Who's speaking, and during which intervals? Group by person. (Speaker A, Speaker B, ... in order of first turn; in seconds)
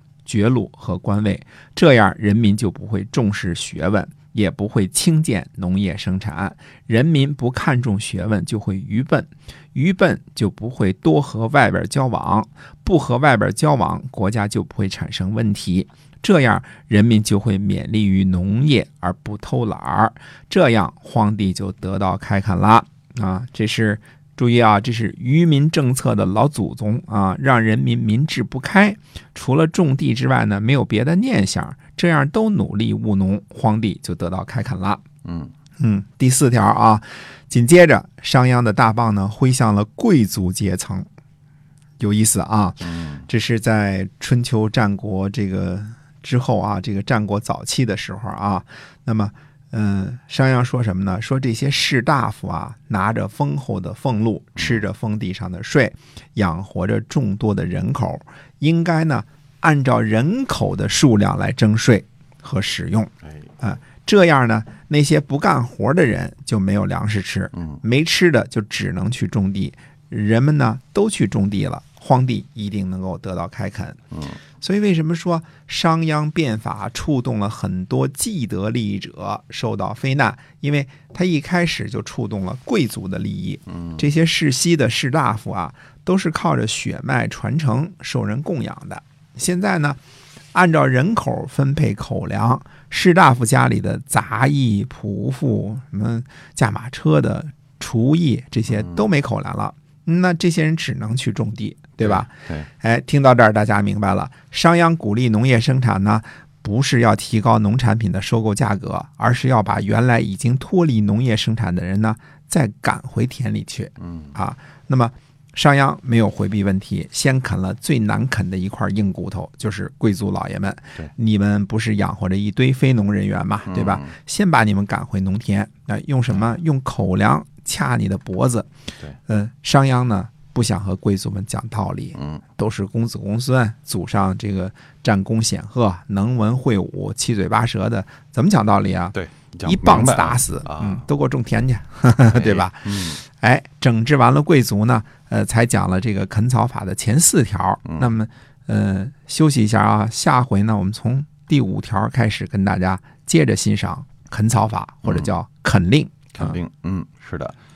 Speaker A: 0.3-35.0, 35.8-41.1, 42.0-74.0, 74.6-90.0, 90.5-128.7, 129.3-156.6
Speaker B: 35.2-35.5, 42.9-43.2, 102.0-102.7, 123.7-124.1, 139.1-141.0, 142.3-143.2, 155.1-155.3, 156.3-157.6